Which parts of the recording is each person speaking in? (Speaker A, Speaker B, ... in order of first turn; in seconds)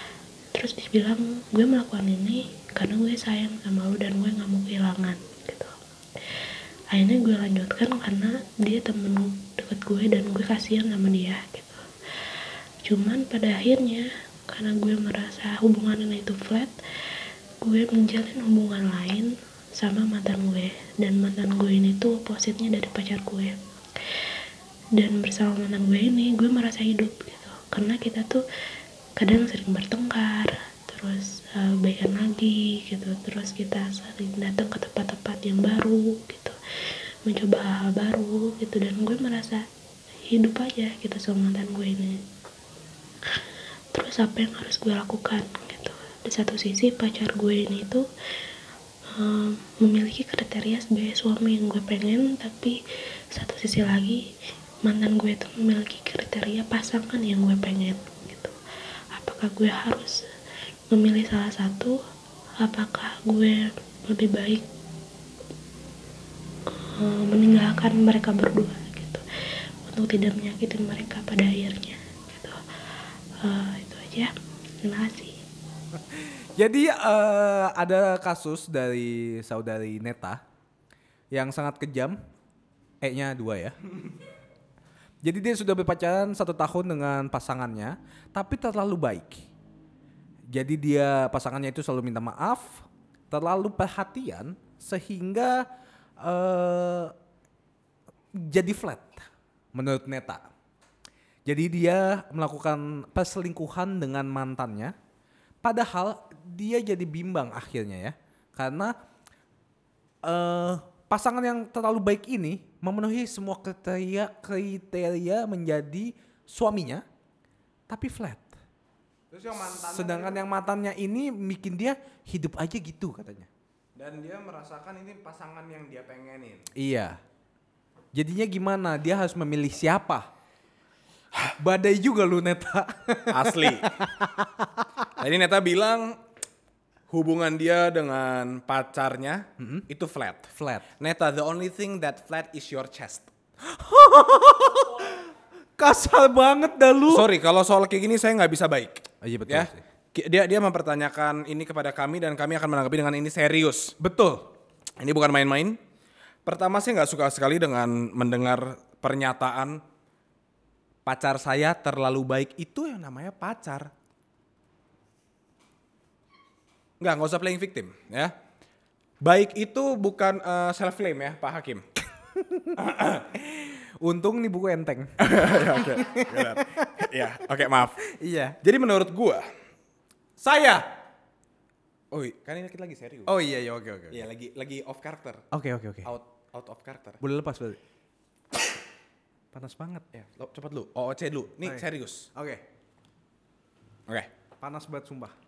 Speaker A: 0.5-5.7, 6.9-11.8, 12.8-16.7, 17.6-23.6, 24.9-28.4, 29.2-36.5, 37.2-39.6, 40.3-42.2, 43.9-48.0, 49.1-52.8, 53.3-54.3, 54.9-58.5, 59.1-60.2, 60.9-62.0, 62.6-64.7, 66.9-69.2, 69.8-72.6, 73.4-74.3, 74.8-75.4
Speaker B: 75.9-80.4, 81.3-82.2, 83.0-83.8, 85.2-89.5, 90.5-95.7, 96.2-97.1, 98.3-100.4, 101.5-104.9, 105.6-108.9, 110.2-117.0, 117.9-118.5, 119.5-123.5, 126.8-127.2, 128.1-130.3, 131.6-134.8, 139.6-139.9, 140.5-140.8, 143.7-145.2, 145.8-147.3, 149.2-149.8, 154.0-154.5, 172.3-172.8, 173.3-177.1, 178.2-178.6, 180.4-180.9, 183.3-184.2, 185.5-186.1, 187.2-187.8, 189.5-190.0, 191.6-192.6, 194.6-195.3
Speaker C: 119.3-120.4, 124.0-126.7, 133.3-133.9, 135.2-136.2, 137.1-143.3, 147.1-153.9, 155.0-155.8, 156.4-159.8, 161.0-163.9, 167.0-168.3, 169.2-171.8, 172.8-173.3, 175.2-178.0, 178.6-179.4, 182.1-183.3, 184.1-185.4, 186.1-187.2, 190.1-192.3